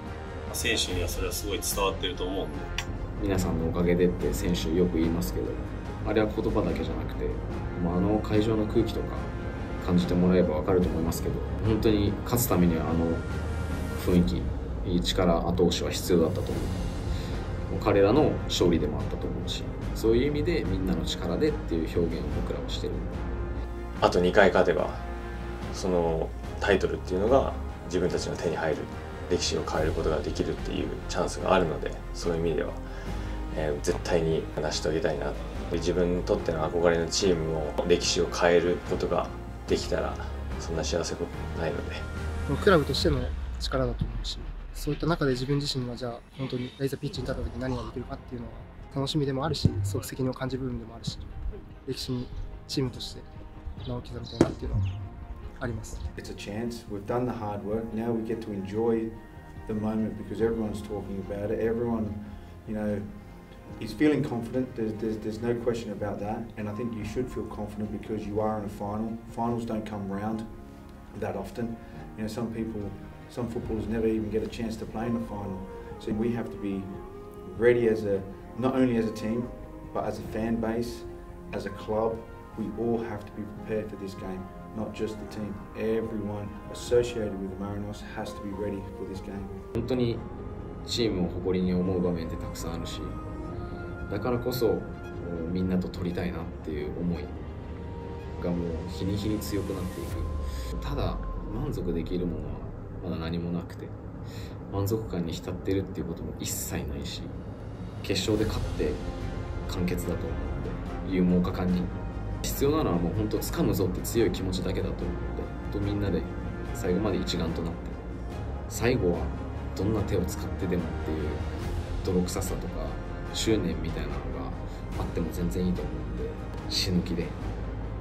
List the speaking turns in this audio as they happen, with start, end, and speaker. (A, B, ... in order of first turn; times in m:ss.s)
0:00.5-0:02.7 A
0:03.2-0:13.3 B
0:13.9-0:17.0 B
0:17.7-0:23.4 B
0:24.0-0:25.1 C
0:25.7-0:42.0 C
0:42.5-0:51.3 D
0:51.8-0:53.3 D
0:53.8-0:54.9 D
0:55.6-0:56.0 D
0:56.1-1:29.6 E
1:29.7-1:30.3 B
1:30.8-1:33.2 B
1:34.1-1:37.4 B
1:38.3-1:44.0 B
1:44.7-1:47.4 B
1:48.0-1:49.0 B
1:49.6-1:58.0 B
1:58.7-2:01.5 B
2:02.0-2:07.4 B